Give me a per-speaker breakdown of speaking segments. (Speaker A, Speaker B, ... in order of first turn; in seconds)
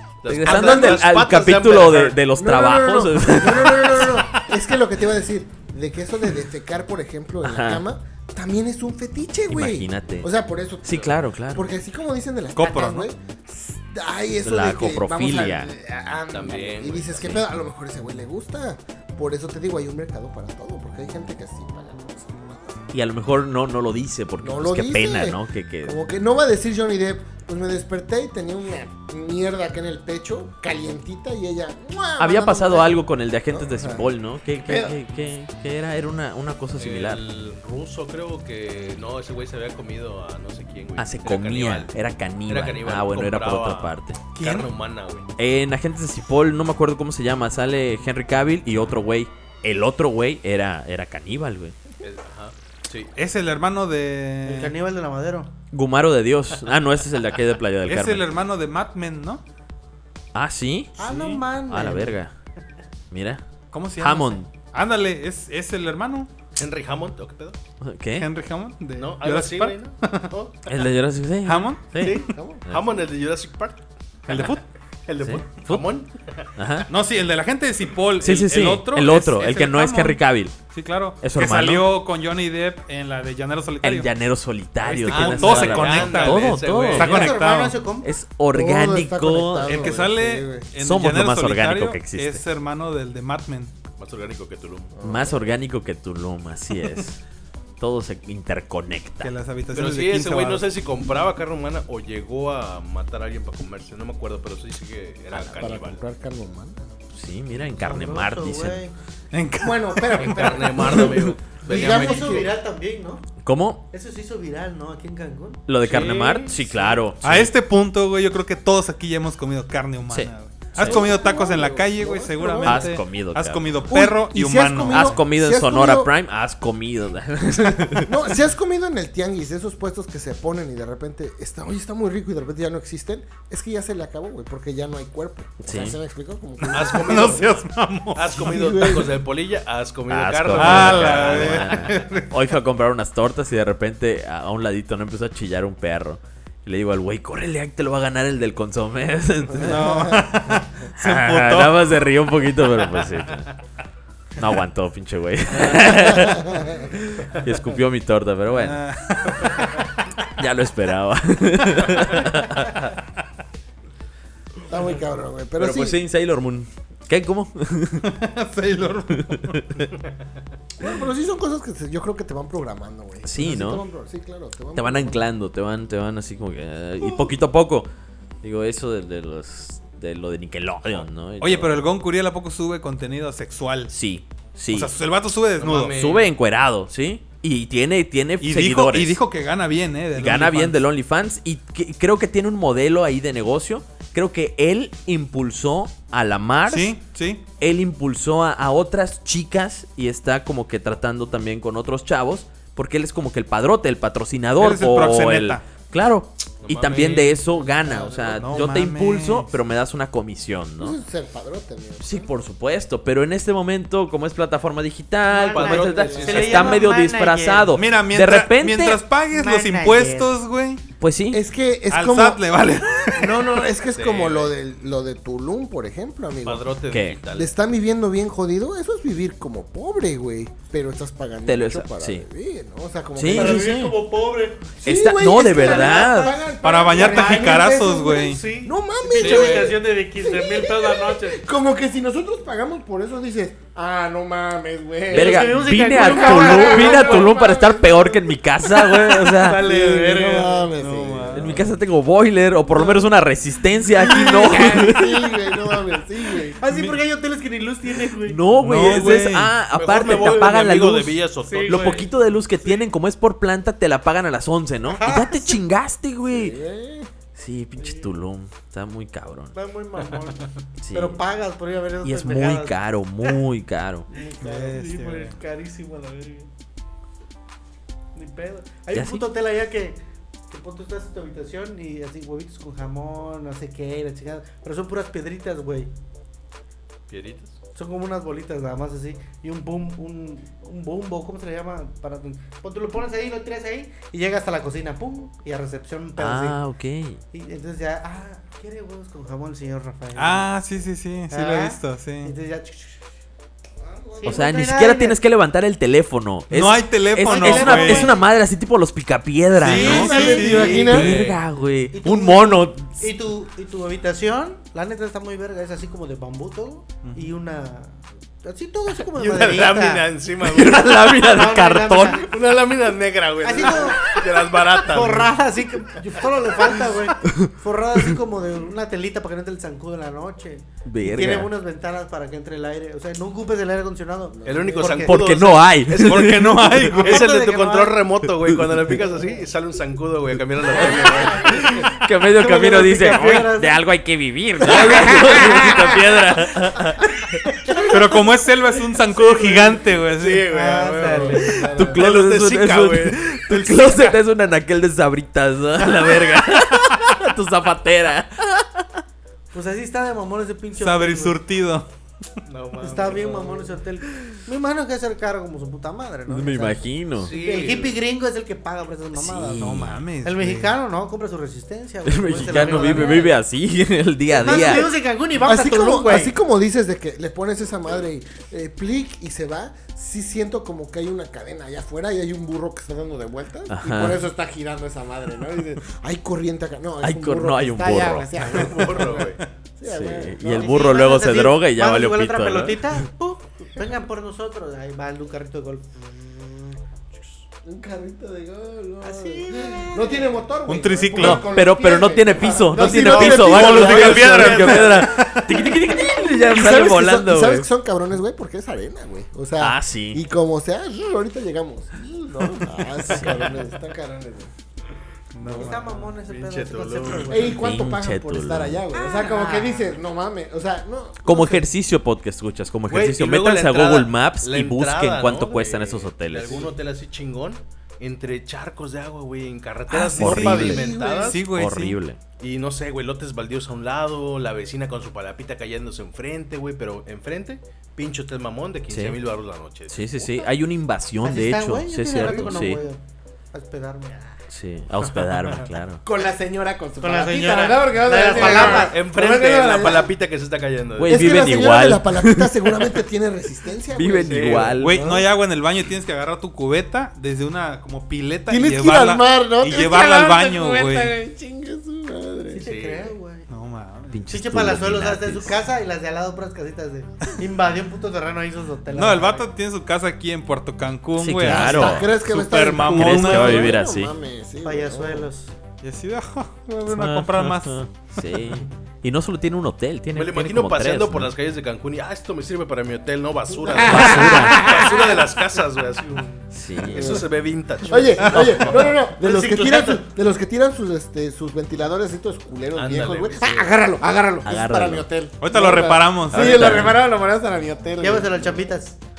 Speaker A: 0.2-2.2, 16.3-17.4, 36.8-41.9, 42.5-45.3, 52.0-53.1, 66.5-67.6, 69.0-70.7, 72.0-74.5, 75.1-76.5, 85.0-87.3, 94.0-94.9, 99.7-106.0, 110.2-112.5, 115.8-116.8, 136.7-141.9, 185.6-186.3, 206.6-207.4, 215.5-216.8, 223.9-224.5, 226.4-227.5, 239.2-239.8, 259.7-262.1, 287.1-287.6, 310.5-310.9, 319.0-321.2, 322.2-325.3, 334.4-341.8, 349.1-354.1, 362.5-363.7, 367.2-368.0, 388.5-389.4, 402.9-405.2, 416.4-417.5, 422.9-431.4, 432.4-440.5, 448.3-451.4, 454.3-454.8, 462.6-463.1, 480.1-490.1, 492.7-493.7
Speaker B: 0.3-4.2, 7.4-7.8, 9.5-10.3, 10.8-11.7, 14.4-15.7, 22.9-26.0, 32.2-37.2, 41.0-44.2, 45.4-51.7, 55.7-58.3, 60.3-61.0, 61.7-62.3, 63.1-63.4, 64.0-64.5, 67.8-68.3, 70.7-72.8, 75.2-75.9, 76.5-76.9, 78.2-80.6, 81.2-81.9, 83.8-87.3, 88.0-90.0, 90.8-92.4, 95.0-97.2, 97.8-99.3, 107.1-108.8, 113.4-113.8, 115.7-117.5, 120.1-121.1, 122.6-123.9, 124.9-128.1, 135.6-136.0, 140.1-150.1, 150.9-153.5, 154.4-158.8, 160.3-162.9, 165.6-168.1, 169.2-169.9, 173.2-173.8, 174.7-177.9, 178.4-181.8, 183.9-184.9, 185.9-189.2, 190.1-196.9, 197.6-211.0, 212.0-219.0, 221.0-221.4, 226.9-227.2, 231.4-232.2, 233.1-233.9, 234.8-236.3, 245.1-249.7, 251.3-255.3, 258.2-266.6, 267.3-269.5, 270.8-271.2, 272.0-274.1, 278.9-279.3, 296.2-297.2, 304.2-313.1, 320.4-322.2, 327.2-327.5, 330.8-331.5, 334.9-336.6, 338.4-338.8, 341.9-347.4, 351.7-358.9, 366.3-367.3, 369.1-370.0, 372.0-374.9, 383.7-384.2, 387.0-388.3, 389.8-392.9, 401.2-407.7, 409.6-410.2, 413.0-413.5, 417.6-418.8, 421.2-426.6, 430.2-430.8, 431.5-432.2, 438.9-439.2, 439.9-442.8, 444.5-446.0, 451.0-453.0, 453.9-455.0, 464.1-465.6, 471.2-474.1, 476.9-481.3, 483.8-484.6, 486.5-487.2, 494.4-495.1, 496.3-497.0
Speaker C: 0.4-1.0, 2.4-22.8, 24.4-35.0, 72.3-72.6, 88.5-90.7, 94.9-95.5, 105.5-106.8, 109.6-112.5, 120.8-123.0, 123.9-126.1, 127.5-137.5, 138.3-139.2, 149.5-150.3, 155.8-156.9, 164.7-166.0, 170.8-175.3, 177.0-177.3, 207.5-208.7, 210.8-212.3, 215.8-216.5, 221.3-222.4, 223.1-226.7, 227.3-233.7, 234.8-248.3, 249.4-251.7, 252.7-253.1, 253.9-256.6, 266.3-267.1, 303.8-304.4, 309.7-311.2, 334.3-334.9, 341.0-341.4, 344.7-345.7, 351.1-352.0, 372.8-373.2, 374.6-390.8, 397.6-404.6, 405.6-414.5, 415.4-415.7, 417.3-421.7, 430.3-431.4, 446.0-450.1, 451.1-455.3, 458.5-462.6, 471.4-475.3, 483.7-485.1, 486.9-487.3, 487.8-498.6
Speaker D: 12.6-13.1, 44.3-44.7, 53.1-54.7, 57.9-59.4, 61.0-61.4, 63.7-66.3, 68.2-70.3, 71.4-72.3, 74.3-74.6, 76.9-84.1, 84.8-87.8, 89.6-93.7, 99.2-100.7, 109.3-111.1, 117.2-125.2, 136.6-138.9, 140.5-142.3, 149.6-152.0, 158.5-160.1, 161.8-162.3, 168.0-169.8, 181.4-183.9, 184.7-186.0, 188.4-190.8, 196.7-197.4, 204.6-205.6, 208.4-209.5, 217.7-220.8, 221.9-223.5, 236.6-238.4, 250.8-251.7, 256.6-257.0, 258.6-259.5, 274.4-275.4, 300.1-302.3, 306.5-308.1, 309.6-311.4, 317.0-317.3, 336.0-337.3, 347.9-350.9, 360.8-361.9, 369.6-370.7, 400.6-401.5, 402.9-405.8, 415.3-416.6, 429.9-432.0, 454.8-461.1, 463.5-464.2, 468.9-473.8, 475.8-477.8, 495.4-496.9
Speaker E: 54.4-55.5, 61.0-62.2, 86.9-88.1, 107.7-108.9, 111.7-113.3, 113.9-115.7, 215.3-217.8, 219.3-220.4, 233.3-234.8, 235.4-236.3, 236.9-241.4, 245.1-248.0, 248.7-250.8, 254.1-255.1, 256.6-259.1, 261.4-262.1, 264.9-265.6, 267.8-268.1, 269.5-273.4, 274.1-276.5, 278.1-280.0, 280.5-285.9, 287.8-296.6, 297.3-300.4, 301.3-303.0, 304.2-305.2, 307.2-308.2, 309.6-311.0, 311.9-320.1, 320.9-322.3, 323.4-324.2, 324.8-335.1, 336.8-338.0, 340.7-343.8, 344.7-345.7, 347.7-348.1, 350.5-351.7, 359.5-361.4, 362.8-373.4, 374.3-376.3, 390.4-397.4, 399.0-400.3, 415.4-417.6, 418.9-419.8, 441.2-443.0, 443.5-444.4, 447.0-449.0, 462.5-463.5, 464.3-469.5, 474.6-475.5, 486.1-486.4, 498.0-499.0